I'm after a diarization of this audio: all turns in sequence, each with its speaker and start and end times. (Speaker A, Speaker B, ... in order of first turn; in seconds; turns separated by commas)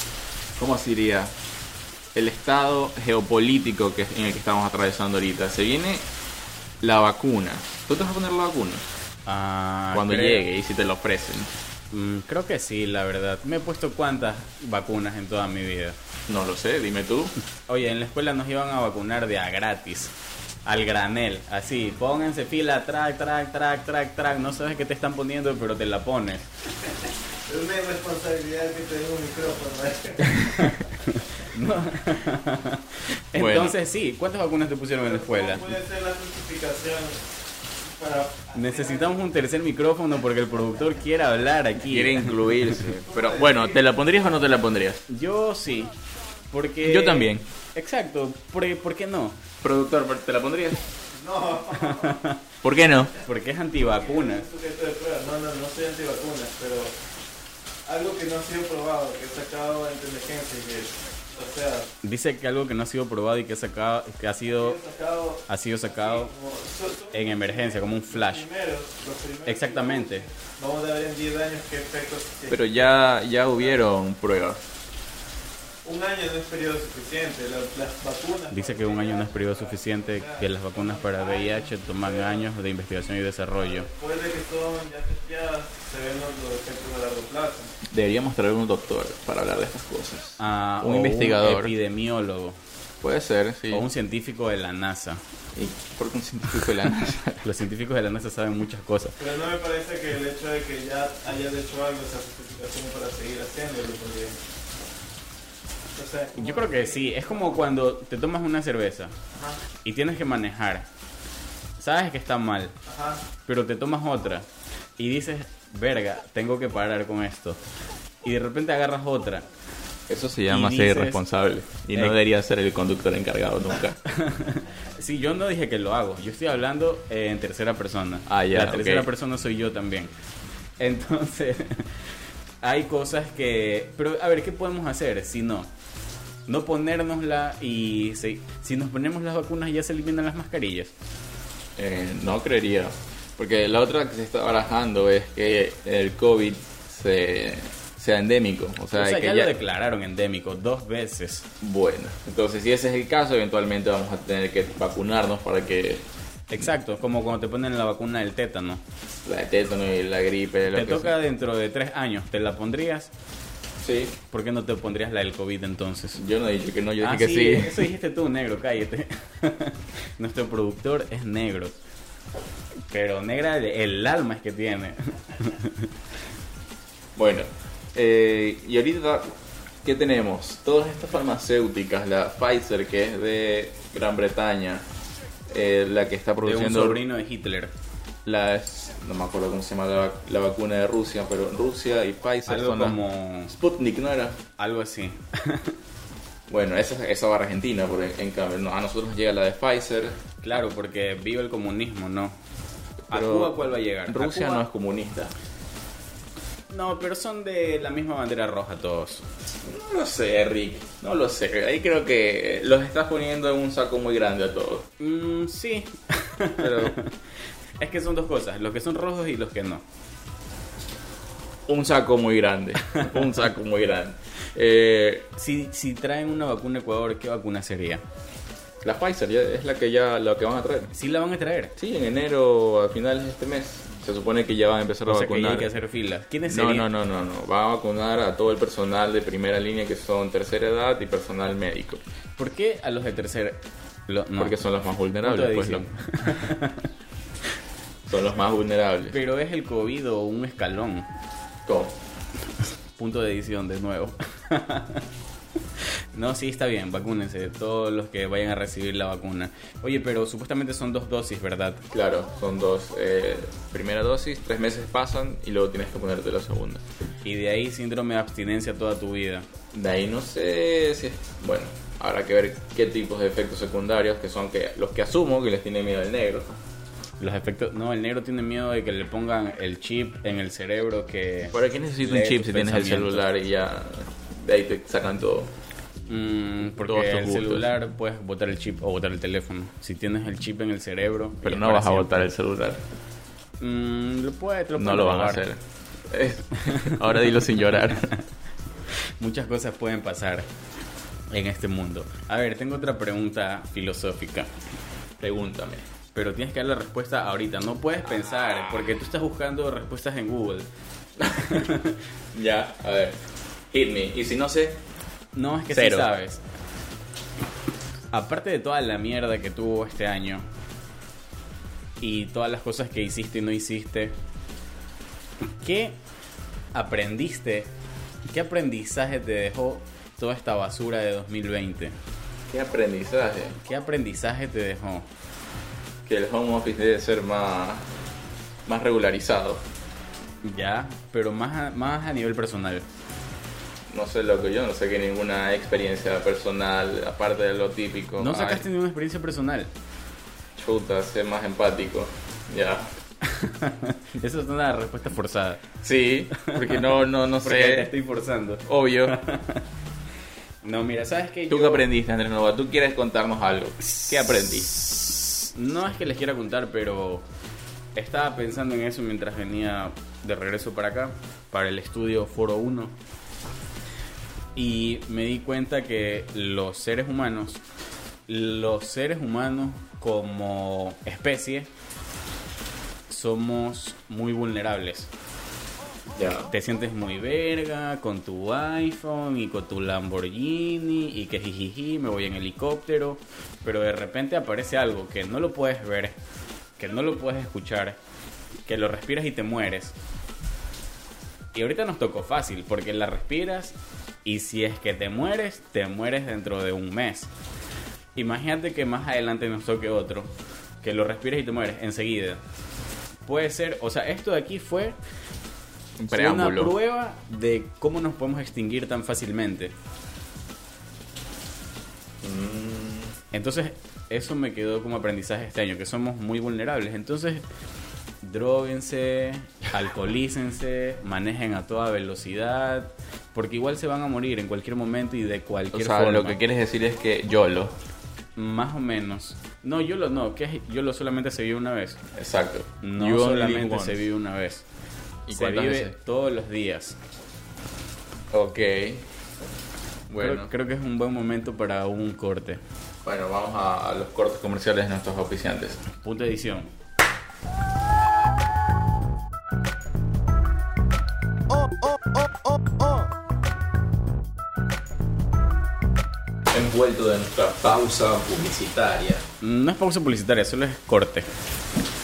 Speaker A: 0.6-1.3, Speaker A: 2.1-6.0, Speaker A: 6.8-8.8, Speaker B: 9.3-10.4, Speaker A: 9.9-11.5, Speaker B: 11.9-15.9, Speaker A: 16.3-17.3, Speaker B: 17.7-20.1, Speaker B: 20.7-26.5, Speaker C: 27.5-30.7, Speaker B: 31.5-35.7, Speaker A: 33.4-33.8, Speaker C: 35.1-37.2, Speaker C: 37.9-39.2, Speaker B: 38.5-42.7, Speaker A: 41.9-45.0, Speaker C: 43.1-43.8, Speaker B: 45.1-45.9, Speaker B: 46.5-49.4, Speaker A: 46.8-47.4, Speaker A: 49.6-50.8, Speaker C: 51.1-52.2, Speaker B: 51.8-52.4, Speaker A: 52.6-53.1, Speaker B: 53.2-54.5, Speaker C: 53.8-56.9, Speaker C: 57.9-61.9, Speaker B: 62.0-64.8, Speaker C: 64.6-72.6, Speaker B: 65.5-66.3, Speaker B: 67.1-68.5, Speaker B: 69.5-70.3, Speaker A: 72.5-74.6, Speaker C: 75.8-82.5, Speaker B: 78.5-83.9, Speaker C: 83.7-87.7, Speaker A: 87.9-91.7, Speaker B: 90.4-92.6, Speaker A: 93.0-93.8, Speaker B: 93.7-95.2, Speaker A: 95.5-97.5, Speaker B: 97.4-99.2, Speaker C: 99.2-104.4, Speaker C: 106.0-107.5, Speaker B: 106.3-109.1, Speaker B: 109.8-110.8, Speaker B: 111.8-112.7, Speaker C: 112.9-113.2, Speaker B: 113.5-114.5, Speaker B: 115.0-117.6, Speaker B: 118.2-119.5, Speaker A: 120.1-124.0, Speaker B: 120.5-121.2, Speaker B: 124.0-130.1, Speaker A: 128.3-129.1, Speaker B: 130.8-132.0, Speaker B: 132.6-135.7, Speaker B: 136.5-140.9, Speaker A: 141.8-149.5, Speaker B: 148.9-151.4, Speaker A: 151.6-156.0, Speaker B: 156.5-158.8, Speaker A: 159.2-161.1, Speaker B: 160.7-163.1, Speaker A: 163.8-164.1, Speaker B: 164.3-166.2, Speaker A: 166.2-167.9, Speaker B: 167.0-171.7, Speaker B: 172.9-175.9, Speaker A: 177.2-179.3, Speaker A: 179.8-184.8, Speaker A: 185.5-187.0, Speaker B: 186.4-187.7, Speaker A: 188.2-193.0, Speaker B: 192.5-193.5, Speaker A: 193.5-194.4, Speaker B: 194.6-195.8, Speaker A: 196.5-200.2, Speaker B: 200.4-202.4, Speaker A: 203.1-203.6, Speaker B: 203.1-204.6, Speaker A: 204.1-205.3, Speaker B: 206.7-209.2, Speaker A: 209.6-214.8, Speaker B: 215.0-217.2, Speaker A: 216.6-217.0, Speaker B: 217.8-219.8, Speaker A: 221.7-225.3, Speaker B: 225.4-228.0, Speaker A: 228.8-230.9, Speaker B: 230.9-231.7, Speaker A: 231.8-235.7, Speaker B: 235.1-236.9, Speaker A: 236.5-242.0, Speaker B: 242.4-244.6, Speaker A: 244.4-245.8, Speaker B: 245.2-246.9, Speaker A: 248.1-249.2, Speaker B: 249.1-251.1, Speaker A: 251.7-251.9, Speaker B: 253.0-255.0, Speaker B: 256.1-261.8, Speaker A: 261.9-266.8, Speaker B: 267.2-269.5, Speaker A: 269.7-276.6, Speaker B: 277.2-283.2, Speaker A: 281.5-285.5, Speaker B: 286.1-292.2, Speaker A: 286.9-287.7, Speaker A: 291.4-292.8, Speaker B: 293.6-295.4, Speaker A: 294.8-298.1, Speaker B: 299.2-300.5, Speaker B: 301.3-304.5, Speaker A: 305.2-305.8, Speaker B: 306.1-310.7, Speaker A: 308.2-308.9, Speaker A: 311.2-311.5, Speaker B: 311.4-312.0, Speaker A: 312.3-313.2, Speaker A: 313.7-314.8, Speaker B: 315.4-316.4, Speaker A: 315.7-316.1, Speaker B: 318.1-320.4, Speaker B: 322.0-324.1, Speaker B: 325.6-325.9, Speaker B: 326.8-327.7, Speaker B: 328.3-331.9, Speaker A: 332.5-333.6, Speaker B: 333.6-335.1, Speaker A: 336.1-337.9, Speaker A: 338.7-339.6, Speaker B: 340.4-342.9, Speaker A: 343.9-348.6, Speaker B: 348.2-349.7, Speaker A: 350.6-352.9, Speaker B: 353.2-355.6, Speaker A: 355.8-357.9, Speaker B: 356.4-356.6, Speaker B: 357.4-359.6, Speaker A: 358.7-359.1, Speaker B: 360.6-361.9, Speaker A: 361.5-364.7, Speaker B: 363.8-367.2, Speaker B: 367.9-372.9, Speaker B: 374.6-377.6, Speaker B: 378.3-381.7, Speaker B: 383.1-385.1, Speaker A: 386.2-386.5, Speaker B: 386.5-396.1, Speaker B: 396.8-398.0, Speaker B: 398.7-399.9, Speaker B: 401.5-407.3, Speaker B: 408.2-410.3, Speaker B: 410.8-412.4, Speaker B: 413.3-415.0, Speaker A: 416.0-416.8, Speaker B: 416.1-419.7, Speaker A: 422.2-423.1, Speaker B: 423.3-427.4, Speaker B: 428.2-436.4, Speaker A: 435.7-437.7, Speaker B: 438.4-442.0, Speaker A: 442.1-444.0, Speaker B: 442.8-444.6, Speaker A: 445.3-445.9, Speaker B: 445.3-447.0, Speaker A: 448.3-449.0, Speaker A: 450.1-450.5, Speaker B: 450.2-452.6, Speaker A: 453.1-455.8, Speaker B: 456.0-456.7, Speaker A: 466.5-469.2, Speaker B: 469.4-471.3